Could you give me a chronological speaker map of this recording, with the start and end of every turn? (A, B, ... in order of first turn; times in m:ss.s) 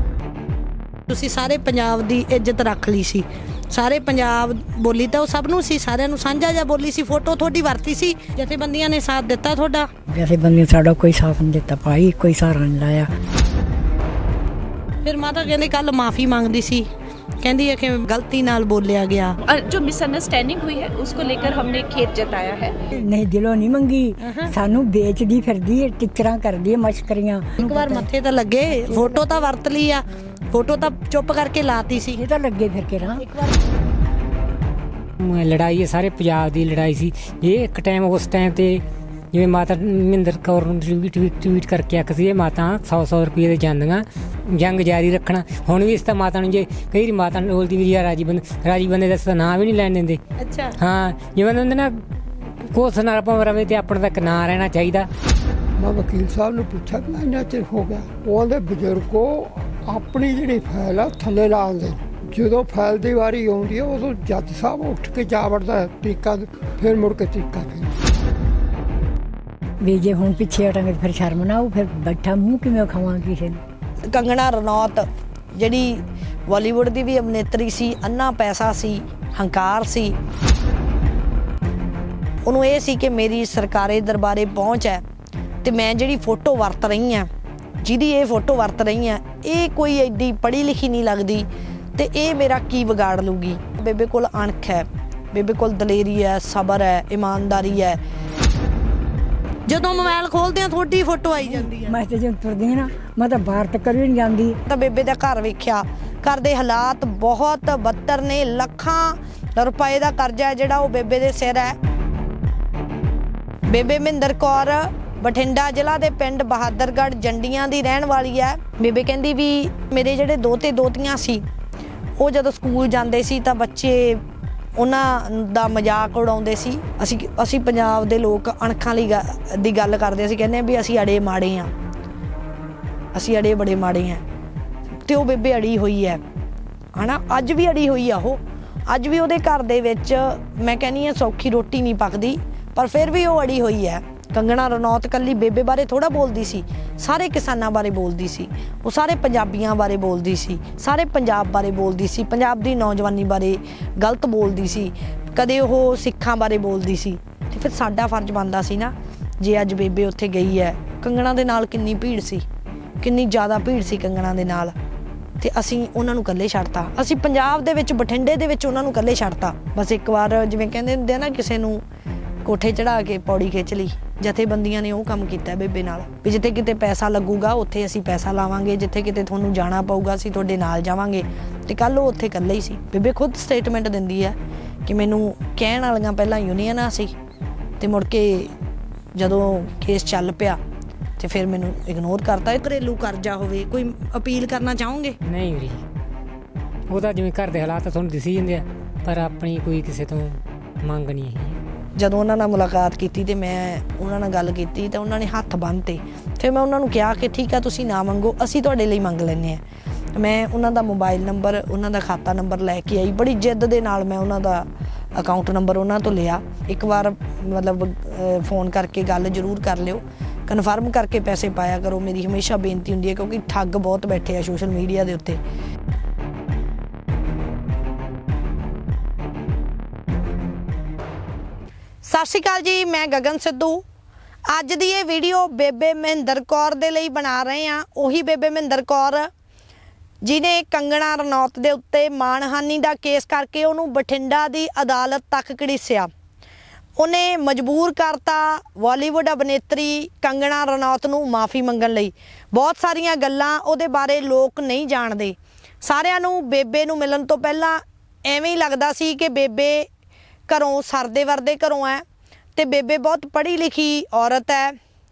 0:01.1-0:09.9 A
0:10.1-0:13.1 B
0:15.0-0:16.9 A
0:17.4-0:19.4 A
0:19.5-0:22.7 C
0:23.0-0:28.1 B
0:24.2-0:24.5 A
0:27.6-0:32.2 A
0:32.2-0:33.2 B
0:33.2-0:33.6 A
0:35.2-0:50.2 D
0:50.4-0:50.7 A
0:50.8-0:52.0 D
0:52.6-0:55.1 D
0:55.8-1:07.9 E
1:09.8-1:13.6 B
1:14.1-1:20.2 A
1:22.4-1:25.0 A
1:25.6-1:27.3 A
1:27.8-1:38.0 A
1:39.7-1:41.9 A
1:41.5-1:44.6 B
1:44.7-1:51.8 A
1:53.7-2:01.4 A
2:02.2-2:04.2 A
2:04.8-2:11.7 A
2:13.1-2:14.2 A
2:15.0-2:16.2 A
2:16.9-2:42.4 A
2:43.0-2:44.7 A
2:45.4-2:51.8 A
2:52.4-3:07.1 A
3:07.8-3:08.5 A
3:09.1-3:10.6 A
3:11.2-3:15.2 A
3:15.2-3:15.8 D
3:16.9-3:21.6 D
3:22.0-3:29.6 A
3:30.2-3:45.4 A
3:52.0-3:53.8 A
3:54.5-3:59.3 A
4:00.2-4:06.1 A
4:07.0-4:19.9 A
4:20.5-4:22.0 A
4:22.6-4:24.8 A